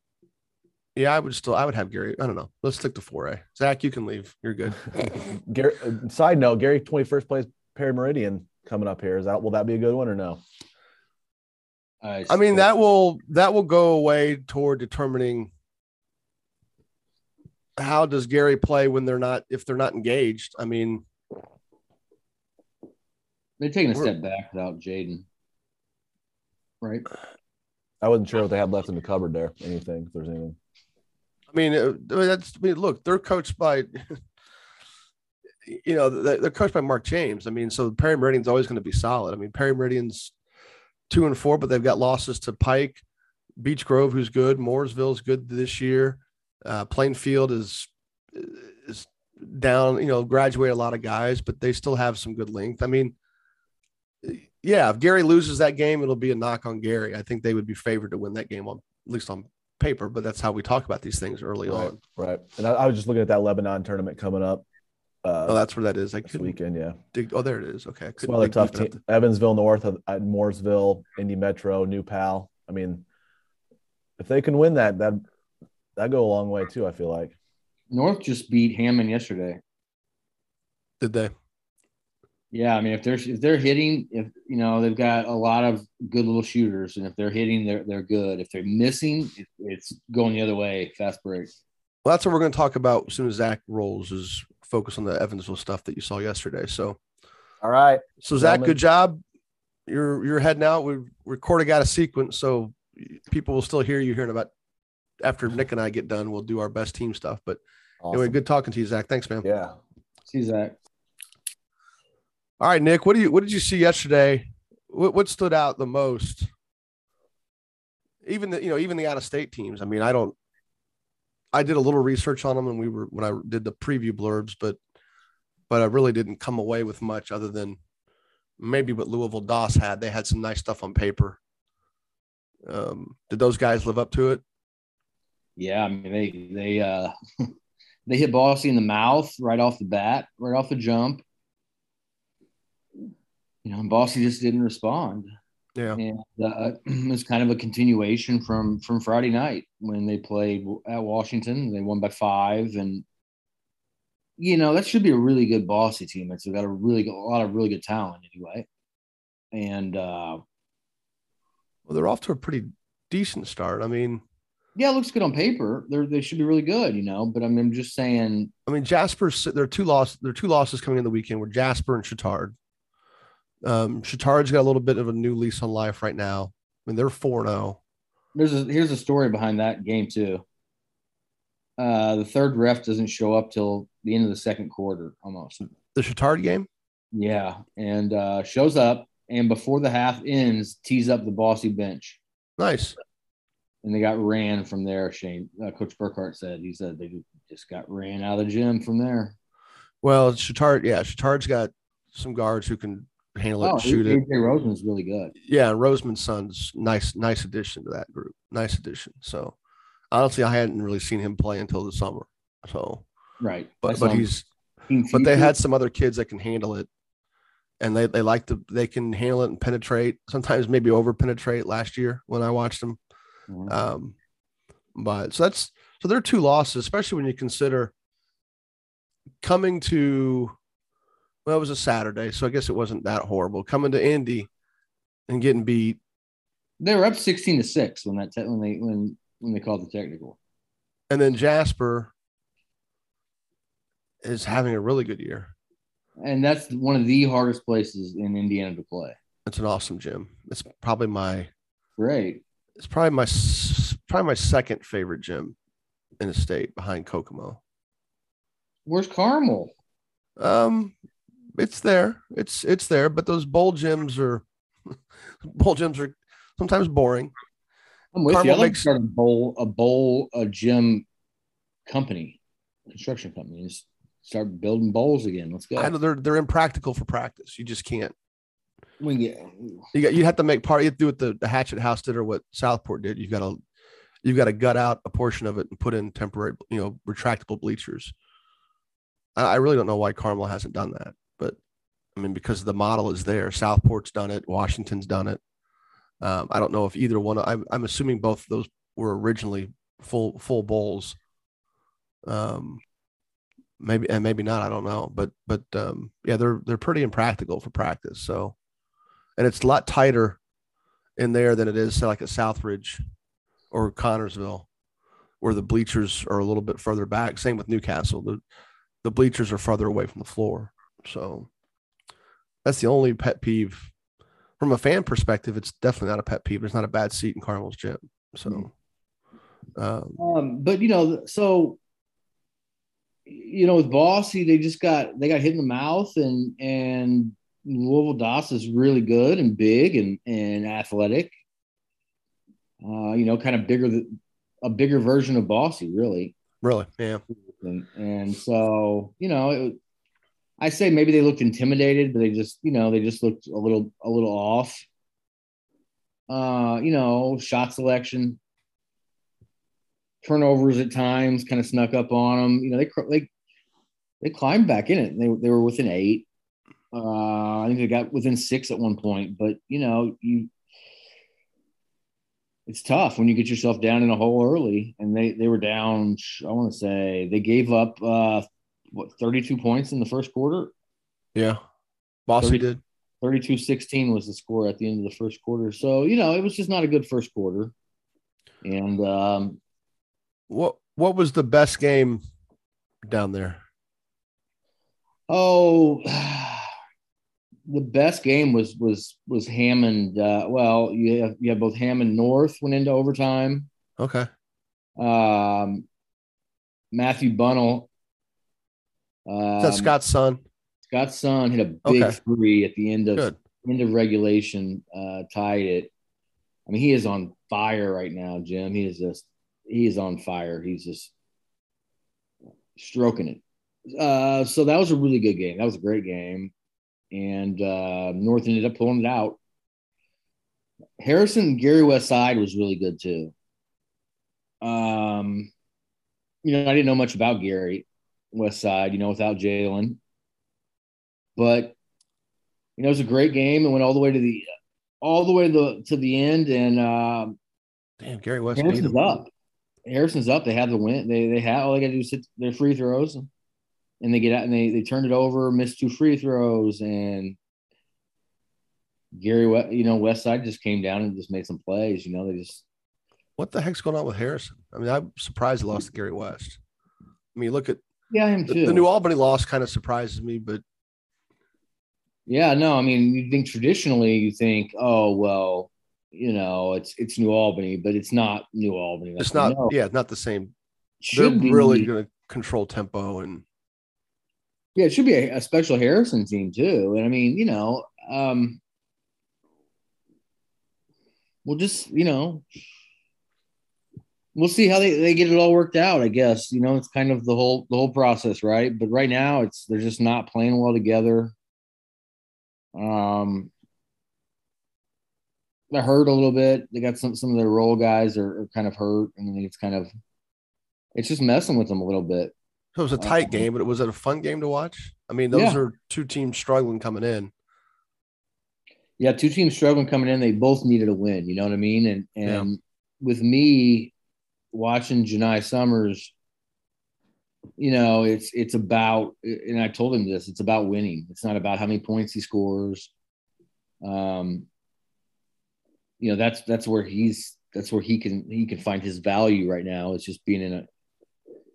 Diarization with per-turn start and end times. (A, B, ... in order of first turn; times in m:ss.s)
0:01.0-0:05.2 A
0:05.1-0:10.4 B
0:12.0-0:12.7 C
0:12.3-0:15.5 A
0:17.8-0:21.0 A
0:23.6-0:25.2 C
0:26.8-0:27.1 C
0:28.0-0:30.6 B
0:31.5-0:34.2 A
0:35.6-0:40.3 A
0:41.1-0:43.0 A
0:43.6-0:53.1 A
0:54.2-1:02.0 A
1:01.7-1:04.6 B
1:05.2-1:05.6 B
1:05.4-1:06.6 A
1:06.2-1:07.0 B
1:07.1-1:09.0 A
1:08.2-1:13.0 B
1:14.2-1:15.2 B
1:16.0-1:17.3 B
1:17.9-1:19.6 C
1:21.0-1:21.3 A
1:22.5-1:31.5 C
1:32.0-1:37.0 A
1:37.6-1:38.8 B
1:38.2-1:39.2 A
1:39.9-1:44.5 A
1:45.2-1:49.4 A
1:48.0-1:48.4 B
1:49.4-1:49.8 B
1:50.3-1:50.8 C
1:52.6-1:56.5 A
1:58.2-2:00.4 A
2:01.5-2:04.8 A
2:05.7-2:07.8 A
2:08.6-2:11.4 A
2:12.7-2:14.4 A
2:15.6-2:17.5 C
2:18.1-2:21.2 C
2:23.6-2:25.3 C
2:26.0-2:33.0 C
2:34.4-2:38.6 C
2:39.5-2:40.4 C
2:41.9-2:44.2 A
2:44.8-2:48.5 C
2:48.7-2:52.5 A
2:53.6-2:57.8 A
2:58.3-3:00.4 C
3:01.8-3:05.6 C
3:05.9-3:06.7 A
3:07.1-3:12.2 C
3:12.6-3:13.0 A
3:13.8-3:19.3 C
3:20.0-3:24.2 A
3:23.6-3:25.3 C
3:25.4-3:29.5 A
3:30.1-3:33.0 A
3:33.4-3:34.3 C
3:33.8-3:34.4 A
3:34.9-3:35.5 C
3:35.1-3:36.9 A
3:37.8-3:43.0 A
3:43.5-3:43.7 C
3:43.7-3:44.1 A
3:44.9-3:47.9 A
3:49.4-3:50.5 A
3:51.4-3:54.5 A
3:55.3-3:56.0 A
3:56.8-4:00.4 C
4:01.1-4:02.1 A
4:04.2-4:05.5 A
4:06.2-4:09.2 C
4:09.5-4:11.5 A
4:12.0-4:12.4 C
4:12.8-4:15.5 A
4:16.2-4:17.6 A
4:18.8-4:19.7 C
4:20.4-4:20.9 A
4:21.6-4:24.4 A
4:25.4-4:27.3 A
4:28.1-4:31.0 C
4:28.3-4:28.9 A
4:31.9-4:32.4 C
4:32.9-4:35.9 C
4:35.8-4:38.1 A
4:39.0-4:39.9 C
4:39.9-4:43.6 A
4:44.2-4:48.1 A
4:49.4-4:51.6 A
4:52.2-4:55.4 A
4:56.2-5:01.2 A
5:02.3-5:02.8 A
5:03.8-5:08.5 A
5:09.4-5:10.4 A
5:11.2-5:13.0 A
5:13.7-5:14.7 A
5:15.4-5:18.4 A
5:19.0-5:21.5 A
5:22.6-5:23.9 A
5:24.6-5:28.7 A
5:29.8-5:30.2 A
5:30.2-5:31.8 C
5:33.3-5:41.3 C
5:42.8-5:46.3 C
5:46.6-5:47.2 A
5:47.4-5:49.8 C
5:50.6-5:54.8 C
5:56.3-5:58.4 C
6:00.2-6:03.3 C
6:04.2-6:06.2 C
6:06.9-6:10.5 C
6:12.7-6:20.7 C
6:21.3-6:21.6 A
6:22.3-6:22.8 A
6:22.4-6:22.6 C
6:23.2-6:27.7 C
6:28.6-6:29.6 C
6:30.5-6:32.2 A
6:33.1-6:33.6 A
6:35.3-6:36.7 C
6:37.7-6:43.7 C
6:44.0-6:44.3 A
6:45.0-6:45.8 C
6:46.9-6:47.9 C
6:49.2-6:49.9 C
6:49.6-6:50.4 A
6:50.9-6:55.9 C
6:51.8-6:52.2 A
6:56.7-7:01.1 C
7:02.8-7:03.4 C
7:03.9-7:06.5 C
7:07.1-7:09.4 C
7:11.0-7:13.3 C
7:14.6-7:15.5 C
7:16.4-7:20.0 C
7:21.4-7:21.7 C
7:22.8-7:24.4 C
7:25.0-7:27.4 C
7:28.0-7:29.0 A
7:28.6-7:29.3 C
7:29.8-7:33.2 C
7:34.0-7:37.4 C
7:39.1-7:42.6 C
7:43.4-7:46.6 A
7:47.3-7:47.8 A
7:48.1-7:48.8 C
7:48.5-7:50.6 A
7:52.3-7:59.7 C
7:59.2-8:00.5 A
8:01.0-8:01.9 C
8:01.1-8:03.4 A
8:04.7-8:08.6 C
8:11.4-8:12.4 C
8:14.3-8:21.3 C
8:22.7-8:23.5 C
8:25.7-8:29.9 C
8:30.9-8:32.3 C
8:32.8-8:37.3 A
8:33.0-8:33.5 C
8:35.3-8:35.6 C
8:39.0-8:43.9 C
8:44.5-8:46.1 C
8:47.6-8:52.9 C
8:53.8-8:54.5 C
8:56.0-9:00.7 C